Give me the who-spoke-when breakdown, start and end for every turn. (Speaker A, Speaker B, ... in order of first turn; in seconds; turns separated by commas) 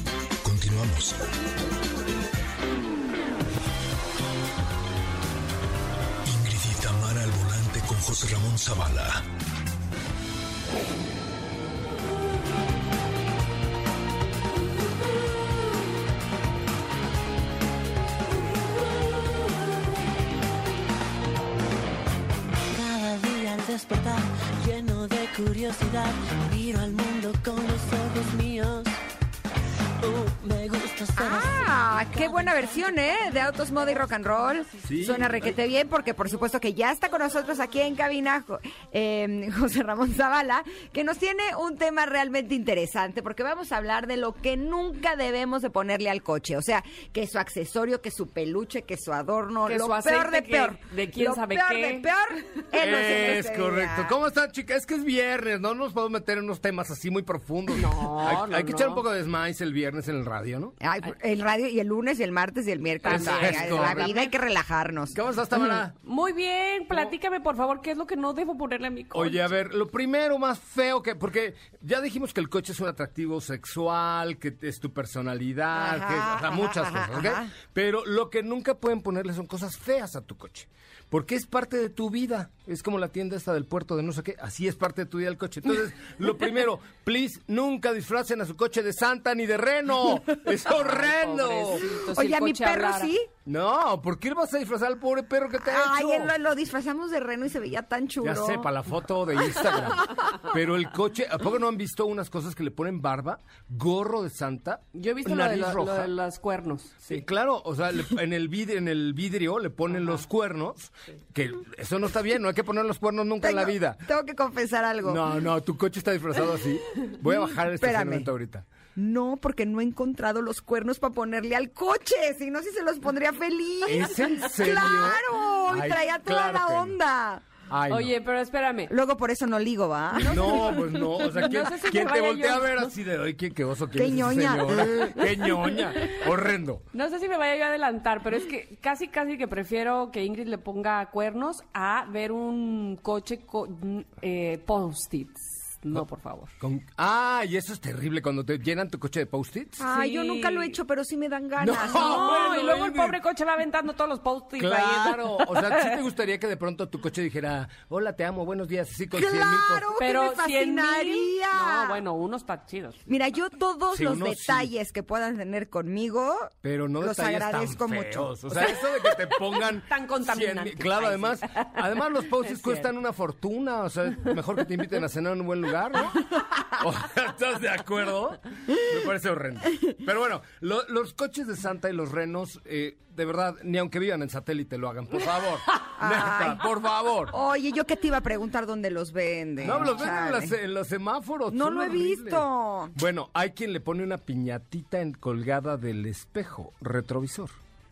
Speaker A: 0.4-1.2, Speaker A: 6.2-9.2, Speaker B: 22.7-28.9, Speaker B: 30.0-31.5, Speaker C: 31.1-54.1, Speaker D: 34.8-35.5, Speaker E: 49.6-52.1, Speaker D: 52.8-60.8, Speaker E: 57.7-59.0, Speaker C: 60.8-65.2, Speaker E: 63.0-64.3, Speaker D: 63.0-64.3, Speaker D: 65.1-66.0, Speaker E: 65.9-69.5, Speaker D: 69.1-91.9, Speaker C: 75.7-77.5, Speaker E: 90.6-93.1, Speaker C: 92.1-93.3, Speaker D: 93.5-96.3, Speaker C: 95.6-98.7, Speaker D: 98.2-106.1, Speaker E: 104.9-107.2, Speaker D: 107.0-114.1, Speaker C: 113.4-115.2, Speaker D: 115.0-118.7, Speaker C: 117.7-118.3, Speaker C: 119.0-127.4, Speaker D: 123.8-127.0, Speaker D: 127.7-128.1, Speaker E: 127.9-128.9, Speaker C: 128.9-130.7, Speaker E: 130.2-132.9, Speaker D: 130.3-136.8, Speaker C: 133.9-135.3, Speaker E: 136.9-146.5, Speaker D: 146.6-149.8, Speaker C: 149.8-152.6, Speaker E: 149.8-150.8, Speaker D: 151.6-153.2, Speaker E: 151.8-156.0, Speaker D: 154.6-159.9, Speaker C: 159.1-162.0, Speaker E: 160.0-163.0, Speaker C: 163.1-168.7, Speaker D: 163.9-164.7, Speaker D: 166.6-187.3, Speaker E: 169.4-172.9, Speaker C: 186.0-186.6, Speaker C: 187.3-190.5, Speaker D: 189.6-197.5, Speaker C: 191.5-192.9